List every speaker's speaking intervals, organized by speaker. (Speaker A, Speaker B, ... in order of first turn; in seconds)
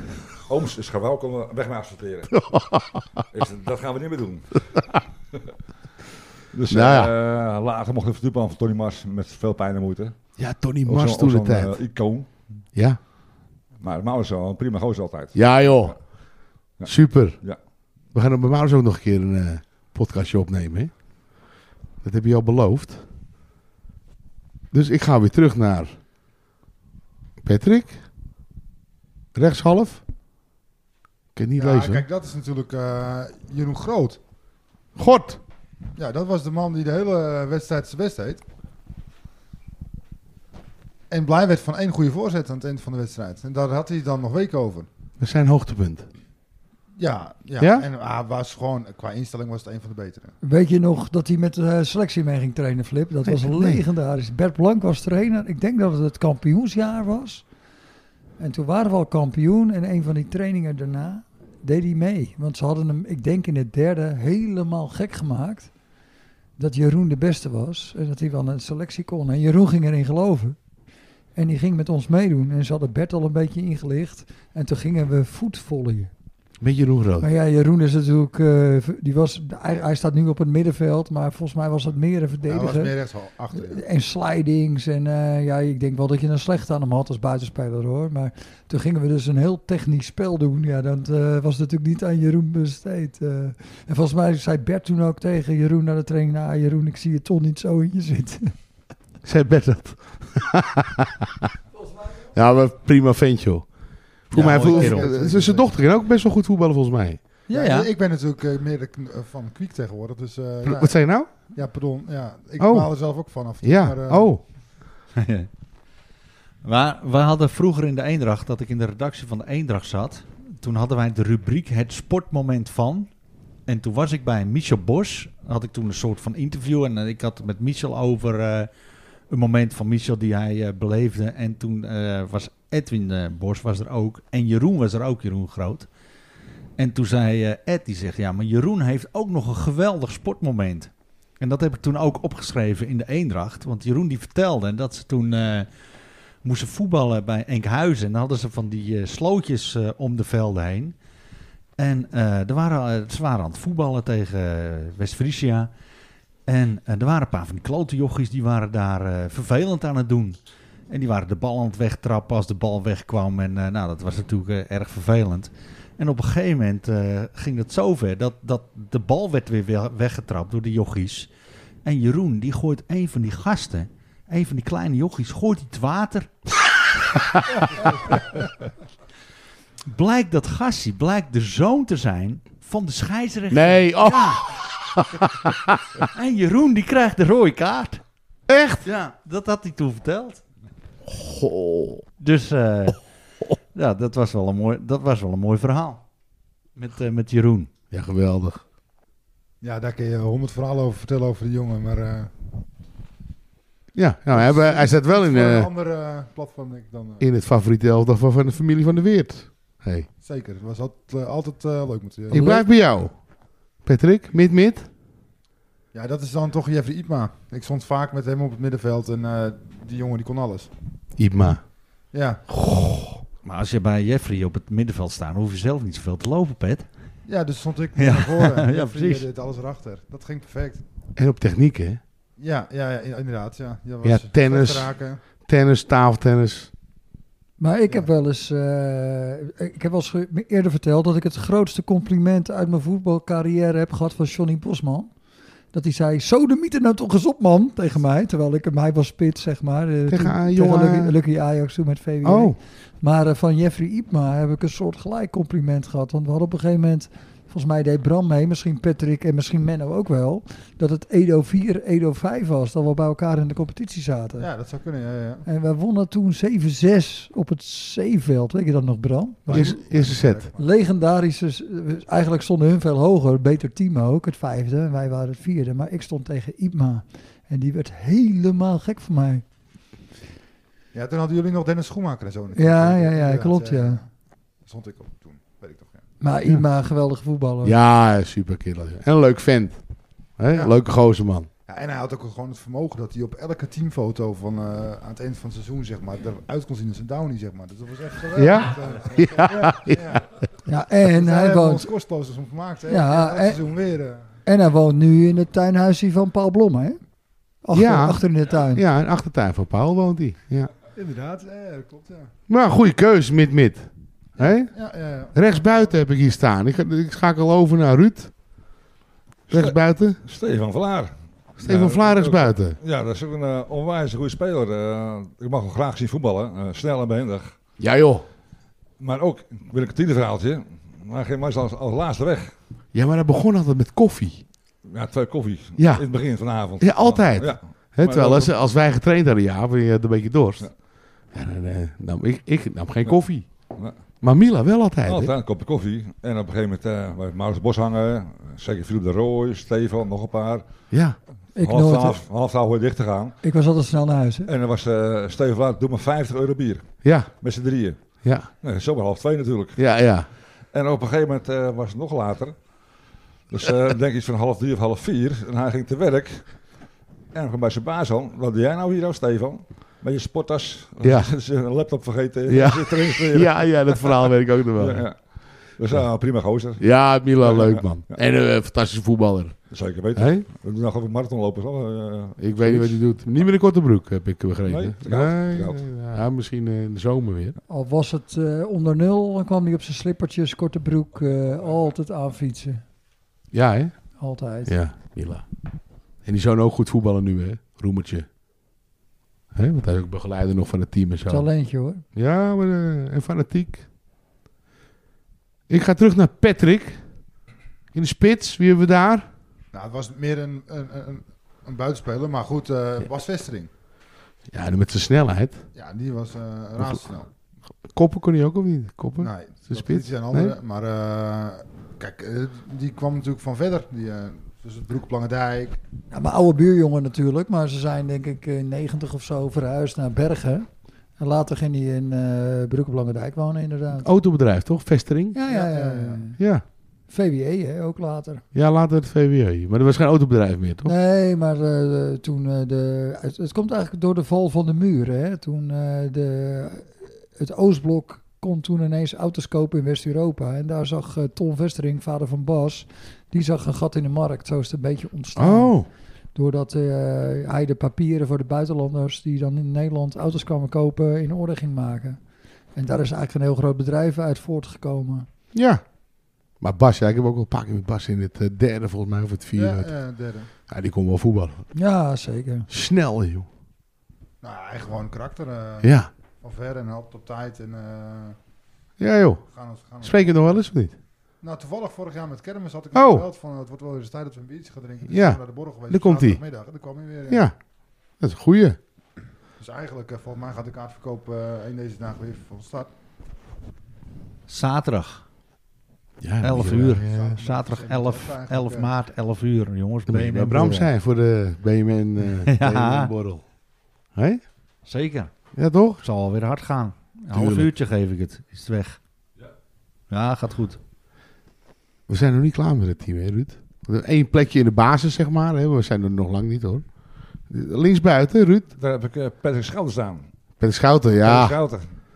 Speaker A: 0.5-2.3, 3.3-4.6, 6.5-10.1, 10.8-12.3, 13.8-16.0, 16.8-17.6, 319.5-327.5, 329.0-332.5, 334.9-338.5, 345.1-350.6, 351.6-353.4, 354.4-358.0, 358.6-359.8, 360.7-362.6, 363.5-366.5, 367.3-378.2, 379.7-383.0, 384.6-385.8, 518.8-520.2, 521.2-521.9
Speaker B: 2.3-3.0, 6.7-7.1, 10.4-11.7, 15.3-16.0, 16.9-17.4, 18.1-20.9, 22.0-23.0, 24.7-25.9, 27.4-28.0, 29.3-30.0, 31.3-32.0, 35.0-35.4, 45.2-46.0, 47.6-47.9, 53.2-53.8, 76.6-77.3, 99.2-101.5, 102.3-103.7, 104.3-107.2, 110.6-111.3, 112.6-112.9, 113.6-114.4, 183.5-186.0, 188.5-188.8, 191.1-192.0, 197.9-198.6, 203.9-205.7, 207.2-210.1, 212.3-213.1, 213.8-214.9, 221.2-221.6, 222.5-223.2, 231.2-232.0, 234.0-234.9, 235.4-236.7, 250.1-251.2, 252.2-252.6, 269.5-270.5, 287.6-289.8, 290.4-291.5, 298.3-300.2, 307.7-310.7, 312.5-314.7, 315.3-318.3, 319.5-320.2, 321.6-322.8, 327.8-328.2, 332.9-334.4, 335.8-336.0, 336.8-340.7, 341.3-343.5, 344.2-345.3, 350.9-351.1, 357.0-357.3, 358.2-358.5, 359.8-360.3, 371.0-371.3, 372.5-375.0, 376.8-380.4, 382.4-387.6, 393.5-394.0, 394.6-395.4, 396.2-398.3, 399.5-401.5, 402.1-403.9, 405.7-407.0, 407.9-409.3, 414.5-415.6, 416.8-417.0, 417.9-420.5, 434.0-435.4, 436.4-436.6, 438.5-440.9, 455.4-455.9, 465.5-465.8, 466.6-469.9, 470.7-471.6, 472.7-473.5, 475.8-476.1, 479.0-479.4, 480.0-480.9, 482.9-483.2, 485.1-486.4, 487.3-487.6, 488.2-488.8, 496.2-497.4, 500.1-503.4, 504.1-504.4, 505.5-506.0, 507.3-507.7, 512.1-516.8, 517.5-518.7, 520.6-521.6
Speaker C: 31.6-34.2, 36.0-38.4, 41.1-44.9, 47.0-50.3, 82.5-83.8, 104.3-105.7, 107.5-111.0, 111.5-114.3, 199.6-202.3, 204.3-207.2, 210.2-212.6, 215.9-220.7, 222.1-222.4, 227.3-230.8, 232.4-235.2, 264.4-265.4, 269.5-270.6, 280.9-284.1, 284.6-286.0, 291.7-300.2, 301.1-304.2, 310.9-312.3, 314.4-316.0, 409.7-413.7, 415.7-417.3, 419.2-425.8, 435.5-436.2, 469.5-470.5, 474.4-475.9, 476.4-478.4, 479.5-480.5, 481.4-487.4, 489.6-492.9, 496.7-498.9
Speaker D: 50.4-57.5, 58.4-65.7, 66.6-70.6, 71.3-76.1, 77.2-82.9, 83.5-98.5, 237.6-245.1, 245.7-264.5, 265.4-269.8, 270.6-279.4, 282.5-284.0, 286.2-287.8, 300.6-301.9, 302.9-303.6, 304.4-307.0, 307.6-308.8, 351.5-352.2, 353.4-354.5, 387.7-392.8, 394.2-394.8, 401.3-402.0, 426.1-430.7, 431.2-434.1, 435.3-436.4, 437.1-438.4, 440.8-455.8, 456.3-462.2, 462.7-465.2, 471.7-472.7
Speaker E: 104.3-105.1, 107.5-107.9, 115.2-115.5, 116.6-123.1, 123.7-128.7, 129.3-135.9, 136.8-145.7, 146.4-150.9, 151.8-155.7, 156.5-160.4, 160.9-171.3, 171.8-176.3, 177.8-178.2, 179.9-184.5, 186.1-188.0, 188.8-190.4, 192.2-193.0, 193.7-196.0, 196.8-197.7, 223.4-226.9, 227.9-229.3, 494.5-495.2, 496.4-500.9, 502.4-503.1, 504.8-505.3, 506.0-509.0, 510.1-510.8